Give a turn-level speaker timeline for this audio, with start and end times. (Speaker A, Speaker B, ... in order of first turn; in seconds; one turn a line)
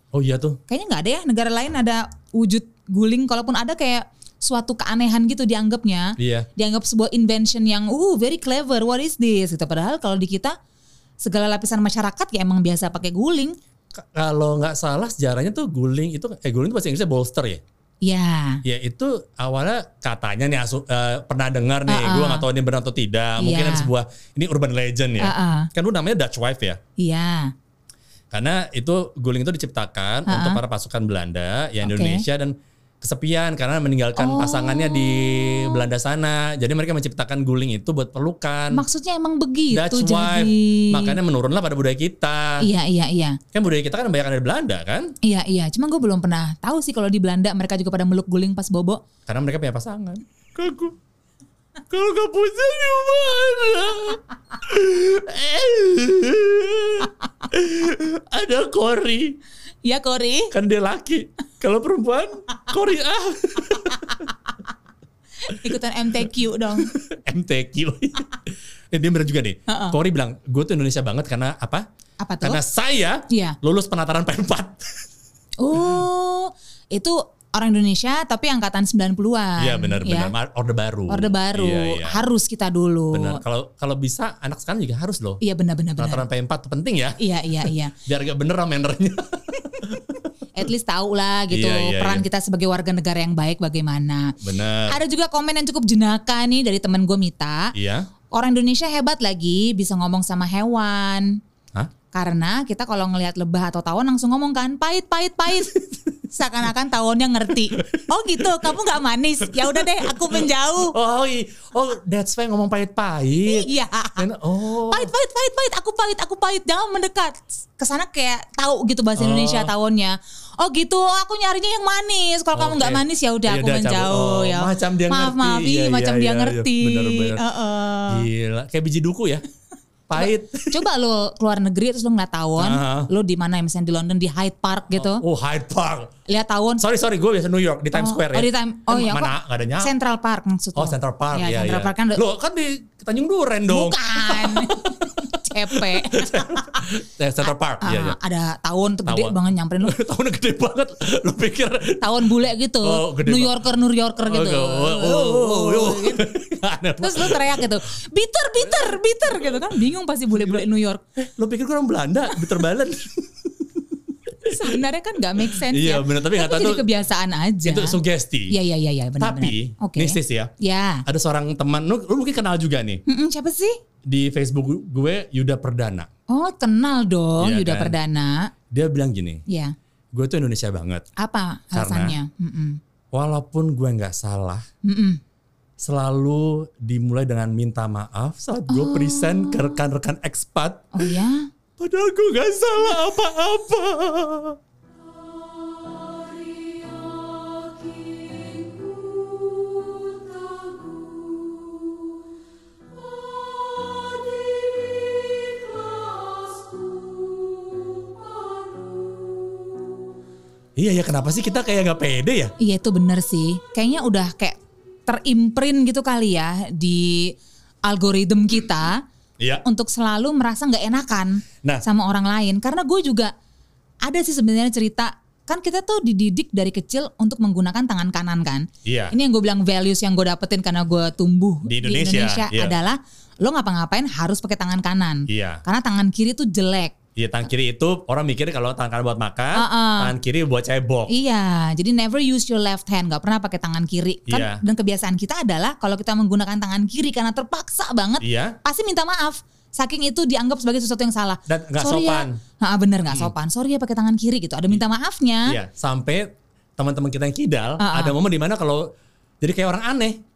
Speaker A: 0.1-0.6
Speaker B: 0.7-10.5
Speaker A: 6.2-6.5
Speaker B: 11.2-13.6
Speaker A: 13.9-17.6
Speaker B: 18.0-18.6
Speaker A: 18.6-26.8
Speaker B: 21.9-22.4
Speaker B: 23.4-23.9
Speaker B: 25.2-25.7
Speaker B: 27.0-27.5
Speaker A: 28.3-38.8
Speaker B: 30.3-30.6
Speaker B: 31.8-32.2
Speaker B: 34.1-35.9
Speaker B: 38.7-41.2
Speaker A: 39.7-42.7
Speaker B: 42.6-43.4
Speaker A: 43.5-45.1
Speaker B: 45.2-49.0
Speaker A: 49.2-51.0
Speaker A: 51.9-59.4
Speaker B: 59.8-60.5
Speaker A: 60.5-64.2
Speaker B: 65.4-66.9
Speaker A: 66.8-71.8
Speaker B: 69.7-70.0
Speaker B: 72.2-72.6
Speaker A: 72.4-75.0
Speaker B: 73.3-73.5
Speaker B: 75.6-80.3
Speaker A: 79.6-82.2
Speaker B: 81.1-83.4
Speaker A: 83.1-85.4
Speaker B: 85.4-86.2
Speaker A: 86.0-90.2
Speaker B: 87.2-87.9
Speaker B: 90.5-94.3
Speaker A: 91.5-92.2
Speaker A: 94.4-95.0
Speaker B: 94.9-97.7
Speaker A: 97.7-98.1
Speaker B: 98.3-101.4
Speaker B: 102.1-110.9
Speaker A: 107.8-108.8
Speaker A: 109.5-115.1
Speaker B: 113.4-114.3
Speaker B: 114.8-128.2
Speaker A: 119.2-119.7
Speaker A: 122.5-127.4
Speaker A: 128.1-129.4
Speaker A: 130.1-130.8
Speaker B: 130.2-135.2
Speaker A: 132.6-133.1
Speaker A: 134.9-136.1
Speaker B: 136.3-136.8
Speaker A: 136.8-139.9
Speaker B: 137.9-142.2
Speaker A: 140.8-148.2
Speaker B: 143.7-146.9
Speaker B: 147.8-149.9
Speaker A: 149.1-152.0
Speaker B: 152.0-156.3
Speaker A: 152.8-153.6
Speaker A: 154.2-157.7
Speaker B: 157.0-161.0
Speaker A: 158.6-159.7
Speaker A: 161.2-164.8
Speaker B: 164.4-168.0
Speaker A: 165.4-166.8
Speaker A: 167.6-168.5
Speaker B: 168.5-171.0
Speaker A: 169.2-170.5
Speaker A: 171.1-173.0
Speaker B: 173.1-173.8
Speaker A: 174.1-176.1
Speaker B: 176.3-178.5
Speaker A: 177.4-178.0
Speaker A: 178.7-179.4
Speaker B: 179.5-179.7
Speaker A: 180.1-181.1
Speaker B: 181.2-182.8
Speaker A: 181.7-182.2
Speaker A: 183.1-184.6
Speaker B: 184.8-185.2
Speaker A: 185.8-191.2
Speaker B: 188.7-189.8
Speaker B: 190.9-191.5
Speaker A: 191.8-194.6
Speaker C: 195.0-202.1
Speaker C: 202.9-209.6
Speaker A: 210.8-212.5
Speaker B: 212.6-219.0
Speaker B: 219.6-223.3
Speaker B: 224.0-236.9
Speaker A: 228.8-229.1
Speaker A: 231.7-232.8
Speaker A: 235.3-235.6
Speaker A: 237.2-241.1
Speaker B: 239.5-240.1
Speaker B: 241.1-255.6
Speaker A: 244.3-244.6
Speaker A: 248.2-248.6
Speaker A: 251.5-252.4
Speaker A: 255.5-260.2
Speaker B: 257.8-258.1